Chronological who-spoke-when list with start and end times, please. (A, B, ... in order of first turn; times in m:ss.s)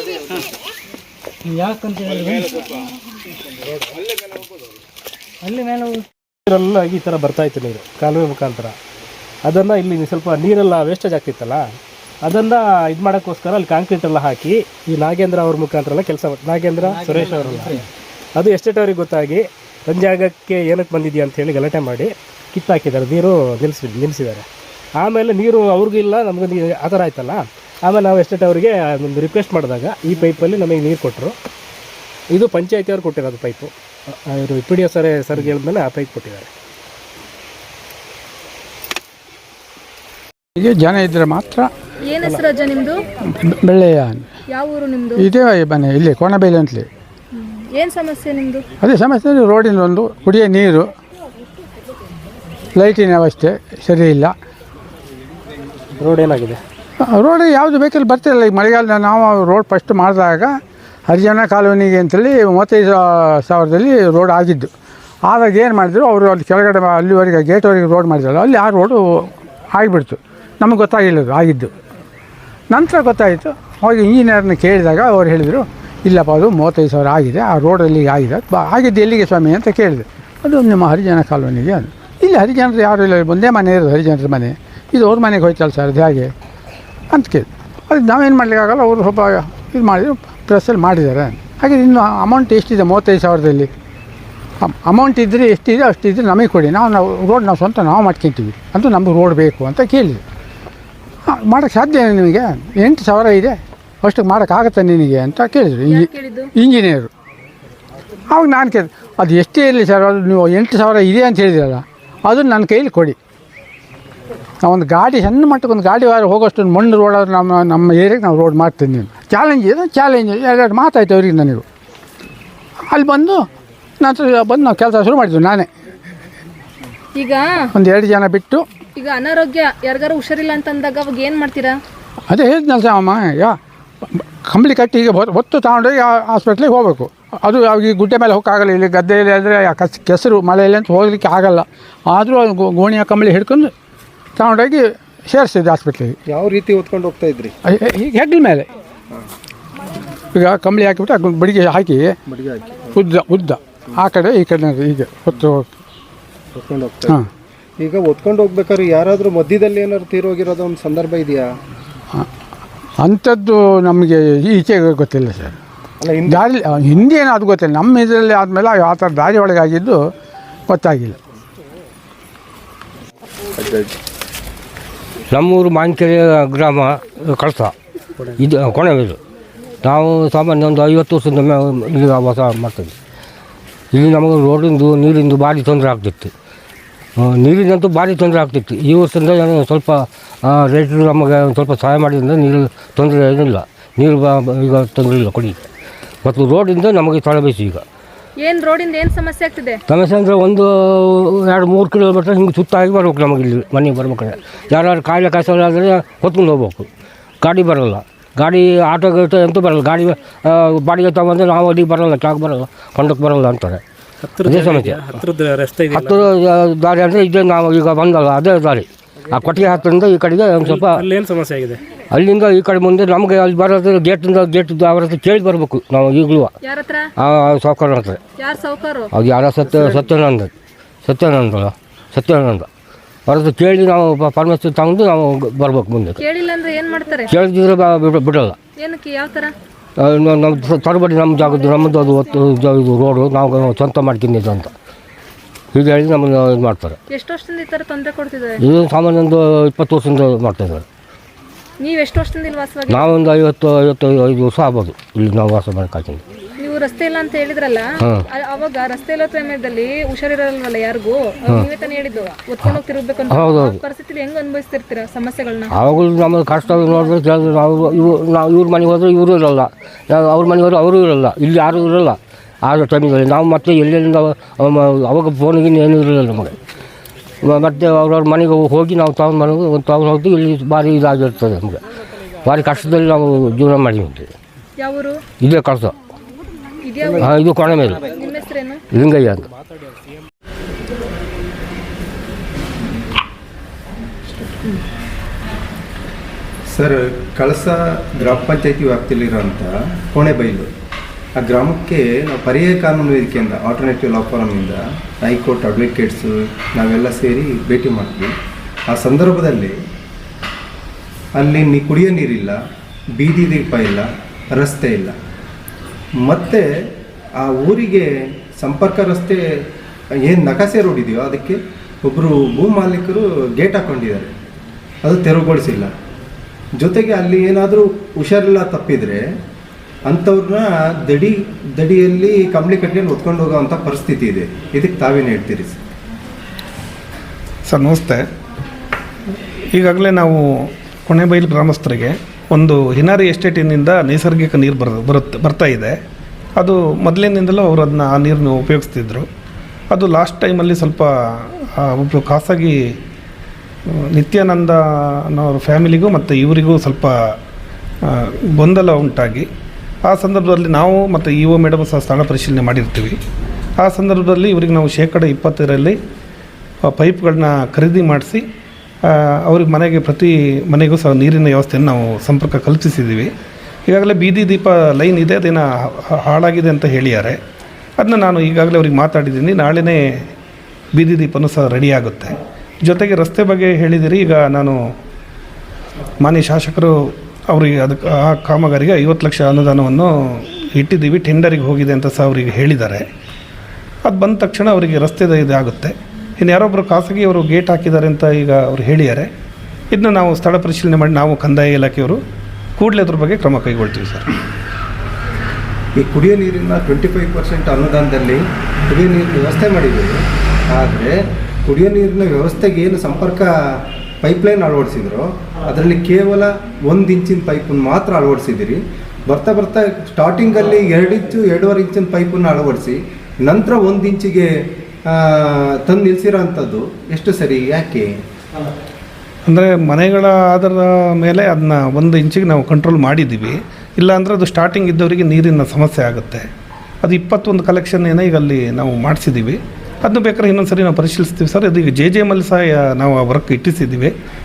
0:01.5-0:02.5 A
0:05.4-0:06.0 A
0:06.4-0:08.8 B
0:09.4-0:17.8 B
0:16.8-0:17.8 A
0:18.3-0:24.5 B
0:25.0-0:31.4 B
0:32.3-0:33.7 B
0:34.3-0:36.5 B
0:40.6-0:41.7 C
0:42.1-0:43.0 D
0:43.3-0:44.3 C
0:44.5-0:45.2 D
0:45.2-0:46.9 C
0:47.3-0:48.6 D
0:48.8-0:50.9 C
0:52.8-0:54.3 C
0:56.0-0:56.6 B
0:57.1-1:00.5 C
1:01.1-1:04.7 C
1:05.2-1:11.7 C
1:12.7-1:26.3 C
1:27.1-1:33.7 C
1:34.6-1:40.2 C
1:41.3-1:47.1 C
1:45.9-1:46.5 D
1:48.3-1:53.2 C
1:54.6-2:01.6 C
2:02.9-2:03.4 C
2:04.0-2:05.7 C
2:07.1-2:07.7 D
2:07.7-2:08.6 C
2:09.0-2:11.8 D
2:12.3-2:13.6 C
2:14.2-2:23.7 C
2:24.4-2:26.2 C
2:26.3-2:27.5 E
2:27.7-2:28.7 C
2:30.3-2:32.2 C
2:32.3-2:32.9 E
2:32.9-2:35.8 C
2:36.5-2:37.2 E
2:37.8-2:41.5 E
2:43.0-2:45.6 C
2:46.0-2:46.4 E
2:46.2-2:50.0 C
2:50.7-2:51.2 C
2:53.5-2:53.9 E
2:55.3-2:57.7 F
2:58.4-2:59.2 F
2:59.8-3:02.9 F
3:03.9-3:06.3 F
3:07.2-3:15.7 F
3:16.2-3:17.8 F
3:18.4-3:19.8 D
3:19.9-3:26.9 F
3:27.4-3:33.8 F
3:34.2-3:36.3 B
3:34.4-3:35.2 F
3:35.9-3:41.0 F
3:40.6-3:41.8 B
3:42.1-3:46.5 F
3:46.6-3:47.1 D
3:47.2-3:48.2 F
3:48.3-3:49.1 D
3:49.1-3:50.5 F
3:49.6-3:50.0 E
3:51.0-3:52.7 F
3:53.3-3:56.2 F
3:56.2-3:57.4 D
3:57.3-3:58.6 F
3:58.8-3:59.5 D
4:00.0-4:04.7 F
4:01.3-4:02.5 D
4:05.7-4:07.0 F
4:07.1-4:08.6 D
4:08.6-4:10.8 F
4:11.8-4:13.2 D
4:12.9-4:16.2 F
4:16.6-4:25.7 D
4:23.3-4:23.8 F
4:25.7-4:36.6 F
4:37.4-4:41.8 F
4:42.4-4:44.3 F
4:44.8-4:45.2 D
4:45.4-4:45.9 F
4:46.8-4:47.4 D
4:47.2-4:48.1 F
4:48.0-4:48.8 D
4:48.9-4:49.4 F
4:49.1-4:50.3 B
4:54.3-4:54.8 E
4:56.7-5:00.7 E
5:01.4-5:08.3 E
5:08.9-5:09.8 E
5:11.4-5:12.6 E
5:13.2-5:15.1 E
5:16.2-5:16.7 E
5:17.4-5:19.4 E
5:20.2-5:24.3 E
5:25.0-5:25.9 E
5:26.8-5:29.2 E
5:30.0-5:35.8 E
5:37.7-5:38.2 G
5:39.7-5:45.9 G
5:46.6-5:49.3 G
5:49.9-5:52.8 G
5:54.1-5:57.1 G
5:58.0-5:59.5 G
6:00.0-6:03.2 G
6:03.8-6:06.0 G
6:06.9-6:08.4 G
6:09.0-6:13.3 G
6:13.9-6:17.4 G
6:18.0-6:20.0 G
6:21.0-6:24.8 G
6:26.2-6:33.0 G
6:34.0-6:39.3 G
6:39.9-6:42.2 G
6:42.8-6:44.2 G
6:46.0-6:53.5 E
6:54.2-7:04.5 E
7:05.1-7:08.1 E
7:09.5-7:16.4 G
7:17.0-7:24.1 G